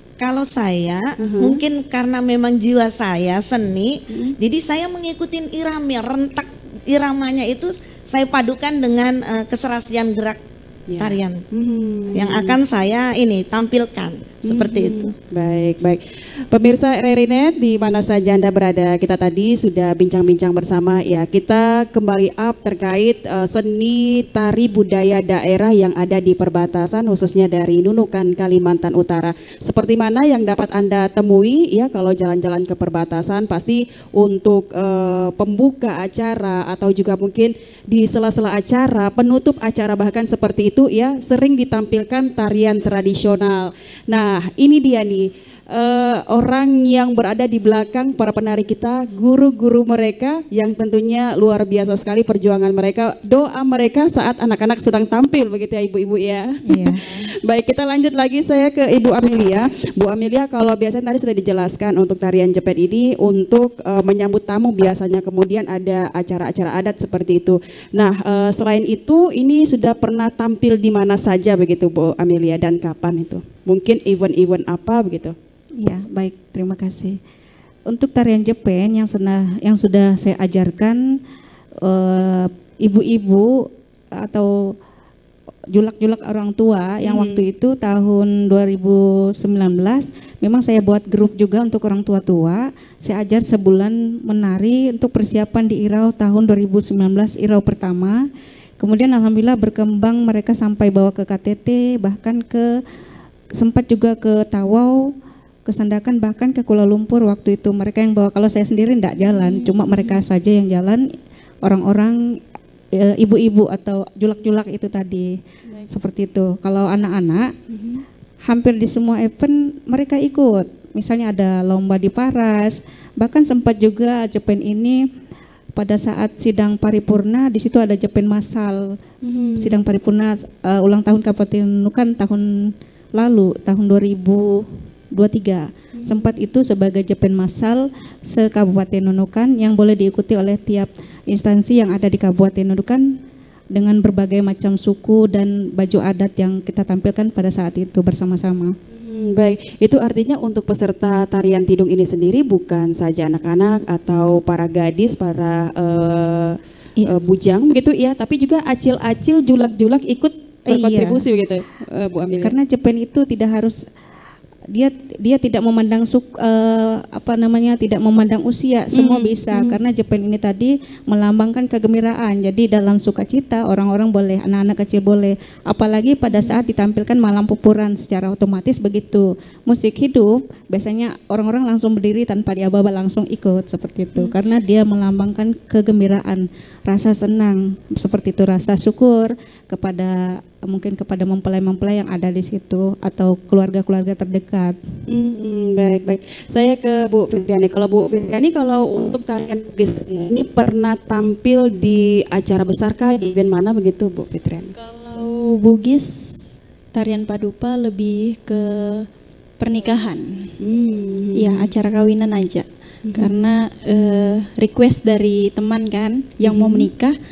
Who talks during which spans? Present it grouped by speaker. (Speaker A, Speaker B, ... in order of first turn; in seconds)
Speaker A: 0.2-10.4, 11.0-11.4, 12.1-15.1
Speaker B: 1.2-1.6, 4.1-4.4, 10.9-12.6, 14.4-16.0, 16.5-75.3, 87.0-87.4, 109.4-110.1, 129.2-129.7, 135.9-136.3, 149.0-162.5, 168.9-169.8, 195.1-204.7, 210.6-211.7, 213.1-213.3, 216.4-216.9
Speaker C: 56.7-57.0, 75.8-77.2, 77.9-81.0, 81.8-84.5, 85.7-98.2, 98.8-102.7, 103.6-105.0, 105.7-111.0, 111.6-112.2, 113.0-115.3, 115.9-117.5, 118.5-125.0, 125.8-128.9, 129.6-143.1, 143.7-148.7, 160.7-161.2, 162.4-163.8, 164.7-194.8
Speaker D: 204.8-206.2, 206.9-209.1, 209.6-210.5, 211.4-217.2